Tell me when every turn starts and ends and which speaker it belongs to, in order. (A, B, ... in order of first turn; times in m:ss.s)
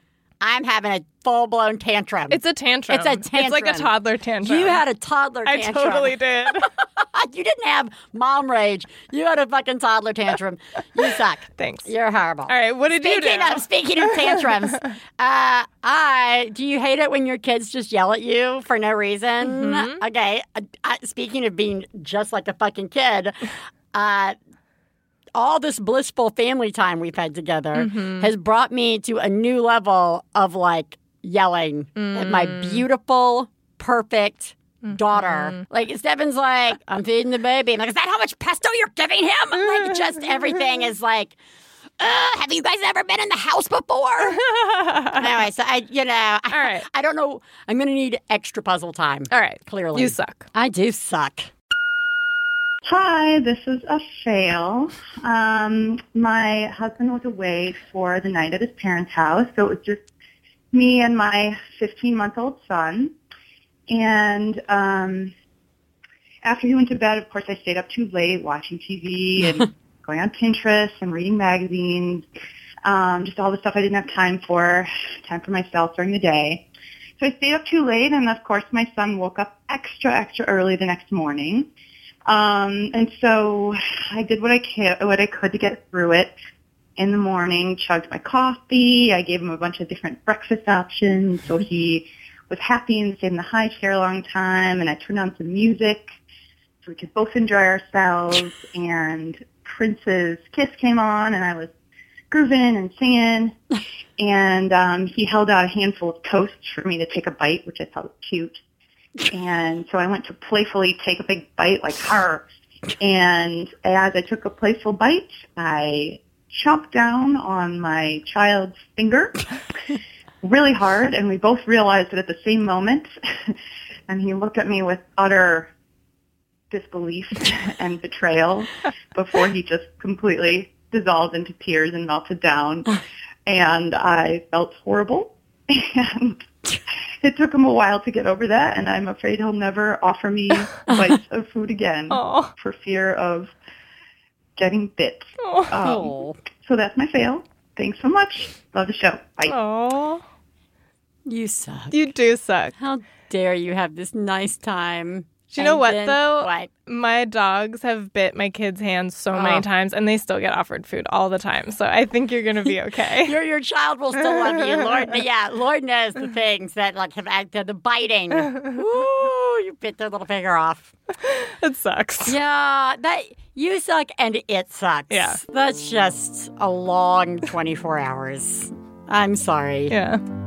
0:00.4-0:03.9 A
0:02.3-0:04.8 B
0:04.4-0:24.4 A
0:05.4-0:06.7 B
0:11.6-0:11.9 B
0:12.5-0:14.9 B
0:19.4-0:20.0 B
0:25.3-0:41.4 A
0:27.7-0:28.3 B
0:32.0-0:32.8 B
0:34.8-0:35.6 B
0:42.0-0:44.4 A
0:44.2-0:45.3 B
0:45.0-0:51.5 A
0:46.5-0:46.8 B
0:49.3-0:50.4 B
0:52.8-1:00.0 C
1:00.7-1:03.1 C
1:03.9-1:05.3 C
1:06.4-1:12.2 C
1:12.8-1:16.6 C
1:17.2-1:21.7 C
1:22.2-1:26.3 C
1:27.0-1:36.1 C
1:36.8-1:41.7 C
1:42.3-1:43.6 C
1:44.2-1:48.6 C
1:49.3-1:52.4 C
1:53.0-1:59.4 C
2:00.4-2:03.1 C
2:04.1-2:05.7 C
2:06.7-2:16.5 C
2:17.2-2:23.5 C
2:22.1-2:22.5 B
2:24.6-2:29.6 C
2:25.4-2:25.7 B
2:25.8-2:26.4 A
2:29.5-2:30.2 B
2:31.2-2:32.0 A
2:31.9-2:32.7 B
2:32.8-2:36.7 A
2:35.5-2:43.4 B
2:39.3-2:39.6 A
2:43.2-2:50.9 A
2:44.3-2:44.7 B
2:51.2-2:52.4 B
2:52.2-2:59.9 A
2:55.1-2:55.4 B
2:59.9-3:00.2 B